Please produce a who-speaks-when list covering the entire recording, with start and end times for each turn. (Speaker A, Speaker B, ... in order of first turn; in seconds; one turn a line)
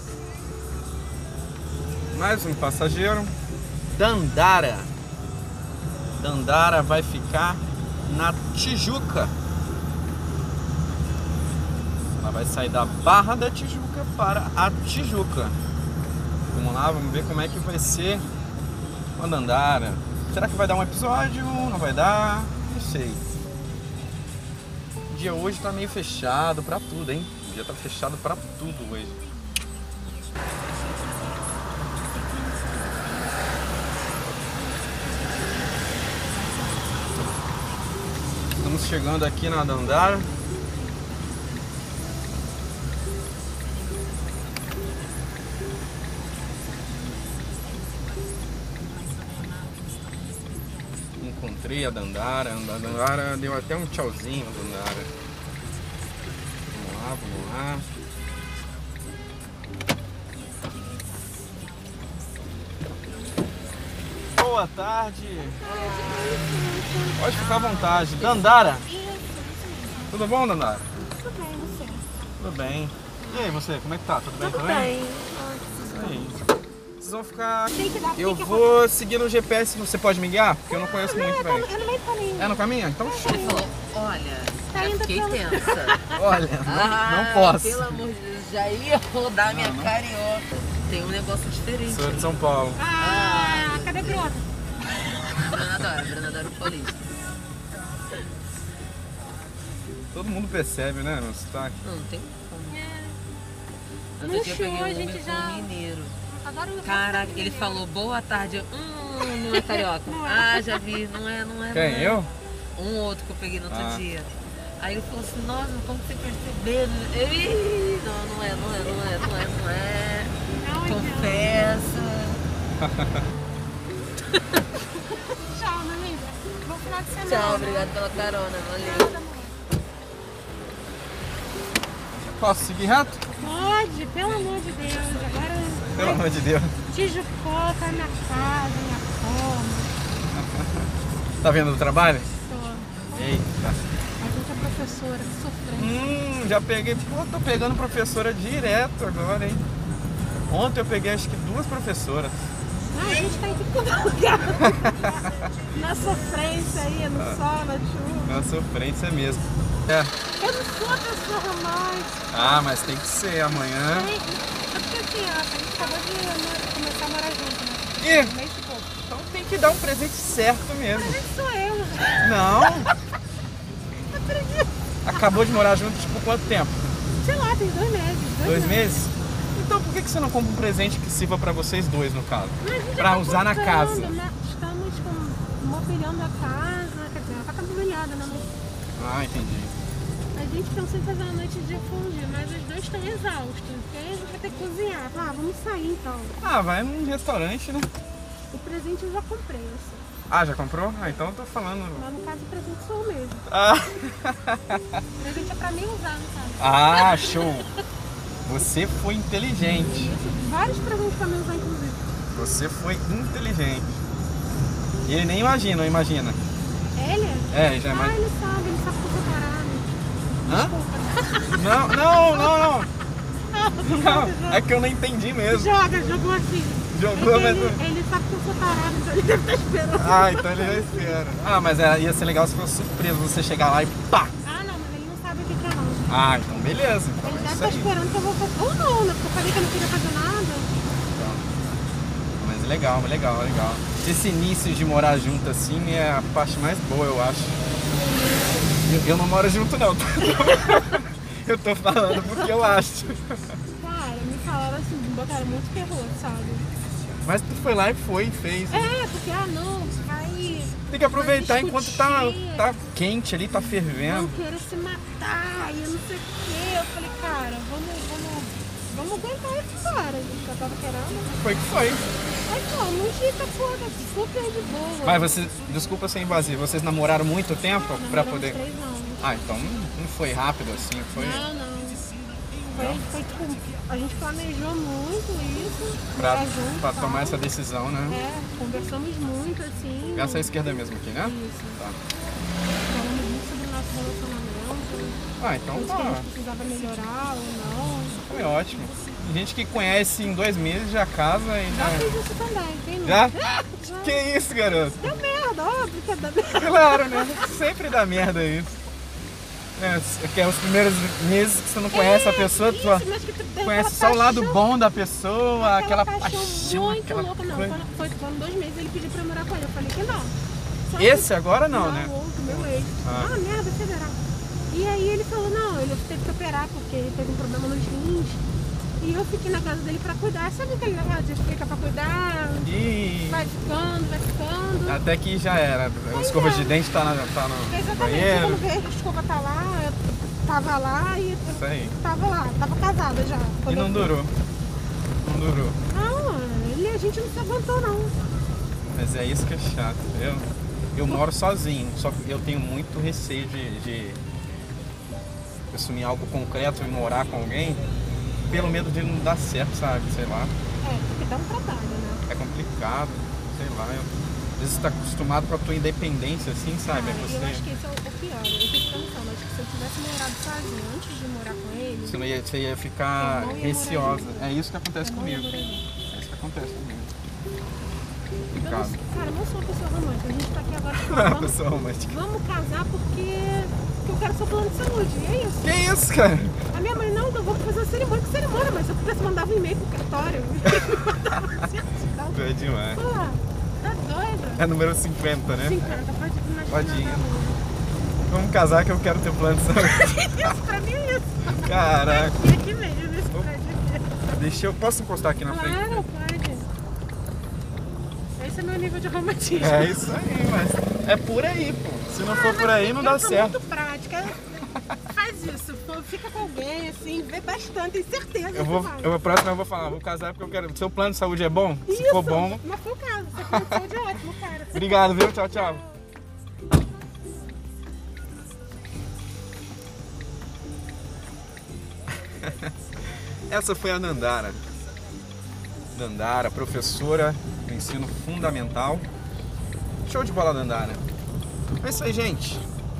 Speaker A: 2.1-3.3
Speaker A: 3.9-4.9
Speaker A: 6.2-9.3
Speaker A: 12.1-15.6
Speaker A: 16.5-18.3
Speaker A: 19.2-23.2
Speaker A: 25.1-29.2
Speaker A: 38.6-40.3
Speaker A: 51.2-55.1
Speaker A: 56.7-57.9
Speaker A: 64.3-65.6
Speaker B: 65.4-67.2
Speaker C: 65.7-66.3
Speaker A: 67.2-68.9
Speaker C: 67.3-68.3
Speaker B: 68.2-70.2
Speaker A: 70.1-70.9
Speaker B: 71.1-72.0
Speaker A: 72.4-74.9
Speaker C: 74.4-76.4
Speaker A: 75.9-76.4
Speaker A: 77.0-81.7
Speaker B: 77.7-78.8
Speaker B: 80.7-83.7
Speaker A: 82.4-83.6
Speaker C: 83.2-86.1
Speaker B: 84.7-86.2
Speaker A: 86.1-88.0
Speaker C: 86.6-92.3
Speaker A: 89.5-89.9
Speaker A: 91.9-92.8
Speaker B: 92.8-94.4
Speaker C: 92.9-94.3
Speaker C: 95.3-97.1
Speaker A: 100.1-101.8
Speaker C: 101.8-102.8
Speaker B: 102.7-103.2
Speaker C: 104.2-106.2
Speaker B: 104.2-105.7
Speaker B: 106.2-107.8
Speaker C: 106.8-122.4
Speaker B: 109.5-110.8
Speaker A: 111.7-112.3
Speaker A: 113.7-114.0
Speaker B: 120.5-121.8
Speaker A: 122.8-123.2
Speaker B: 124.9-127.9
Speaker C: 127.2-129.1
Speaker B: 128.8-129.5
Speaker A: 132.3-133.2
Speaker B: 133.4-136.2
Speaker A: 135.9-136.7
Speaker B: 136.9-139.9
Speaker A: 140.3-140.9
Speaker A: 141.4-142.3
Speaker B: 142.3-143.4
Speaker A: 143.1-143.8
Speaker B: 144.2-146.1
Speaker A: 145.7-149.6
Speaker A: 150.5-152.4
Speaker B: 152.9-155.1
Speaker B: 155.7-158.4
Speaker A: 158.2-160.1
Speaker B: 160.4-162.3
Speaker A: 162.3-164.1
Speaker B: 163.9-168.9
Speaker A: 168.0-168.3
Speaker A: 169.1-171.2
Speaker B: 170.9-172.7
Speaker A: 172.2-172.9
Speaker B: 174.1-174.7
Speaker A: 175.0-176.9
Speaker B: 177.2-179.0
Speaker A: 178.4-184.1
Speaker B: 182.6-188.5
Speaker A: 188.9-189.7
Speaker B: 190.3-196.4
Speaker A: 196.4-197.9
Speaker B: 198.5-200.0
Speaker A: 200.3-202.0
Speaker B: 201.9-203.5
Speaker A: 203.5-205.0
Speaker B: 205.2-207.5
Speaker A: 206.6-207.7
Speaker A: 208.4-210.1
Speaker B: 209.8-212.0
Speaker A: 212.3-213.9
Speaker A: 215.0-216.4
Speaker B: 216.9-222.8
Speaker A: 217.5-218.2
Speaker A: 220.5-220.7
Speaker A: 221.5-222.9
Speaker B: 223.5-224.6
Speaker A: 223.8-225.7
Speaker B: 225.5-231.2
Speaker A: 226.9-227.8
Speaker A: 229.9-234.3
Speaker B: 234.4-236.1
Speaker A: 236.1-237.9
Speaker B: 237.2-240.8
Speaker A: 241.1-241.5
Speaker A: 242.4-247.6
Speaker B: 247.9-248.8
Speaker A: 248.8-253.5
Speaker B: 253.7-256.7
Speaker A: 257.2-258.9
Speaker B: 258.7-262.8
Speaker A: 260.9-264.4
Speaker B: 264.0-271.3
Speaker A: 271.4-272.0
Speaker B: 272.4-275.4
Speaker A: 275.0-278.6
Speaker B: 278.0-279.2
Speaker A: 279.2-281.4
Speaker B: 281.1-282.1
Speaker A: 282.7-283.0
Speaker B: 282.7-287.4
Speaker A: 286.2-288.2
Speaker B: 288.1-290.5
Speaker A: 290.1-292.0
Speaker B: 291.2-291.8
Speaker B: 292.8-298.2
Speaker A: 295.4-296.3
Speaker A: 298.3-302.1
Speaker B: 301.7-304.2
Speaker A: 303.0-305.0
Speaker B: 305.0-307.6
Speaker A: 306.5-308.8
Speaker A: 309.8-313.1
Speaker B: 311.9-314.6
Speaker A: 313.6-317.8
Speaker B: 315.6-320.3
Speaker B: 320.9-328.4
Speaker A: 321.0-323.4
Speaker B: 329.0-332.7
Speaker A: 332.6-333.4
Speaker B: 333.2-335.0
Speaker A: 334.9-338.6
Speaker B: 336.1-336.8
Speaker B: 337.7-344.1
Speaker A: 341.5-341.9
Speaker A: 343.7-344.3
Speaker A: 345.2-345.8
Speaker B: 345.9-348.1
Speaker A: 348.9-354.2
Speaker A: 355.7-357.8
Speaker A: 358.5-360.5
Speaker B: 360.8-362.2
Speaker A: 362.3-367.6
Speaker B: 366.9-372.2
Speaker A: 372.0-377.1
Speaker B: 373.2-375.9
Speaker B: 378.5-385.8
Speaker A: 378.5-379.0
Speaker A: 381.0-382.1
Speaker A: 385.6-386.6
Speaker B: 386.7-394.7
Speaker A: 390.6-391.7
Speaker A: 392.3-393.0
Speaker A: 394.6-395.9
Speaker B: 395.6-397.6
Speaker A: 396.7-397.2
Speaker A: 398.3-400.6
Speaker B: 399.8-404.2
Speaker A: 401.5-402.4
Speaker A: 404.3-406.0
Speaker B: 405.4-406.6
Speaker B: 408.4-410.1
Speaker A: 409.6-413.6
Speaker B: 412.2-419.1
Speaker A: 418.5-422.6
Speaker B: 421.9-425.9
Speaker A: 423.5-423.8
Speaker A: 424.7-425.8
Speaker A: 432.2-432.7
Speaker A: 433.5-434.6
Speaker A: 435.9-439.0
Speaker A: 440.1-441.0
Speaker A: 441.8-442.6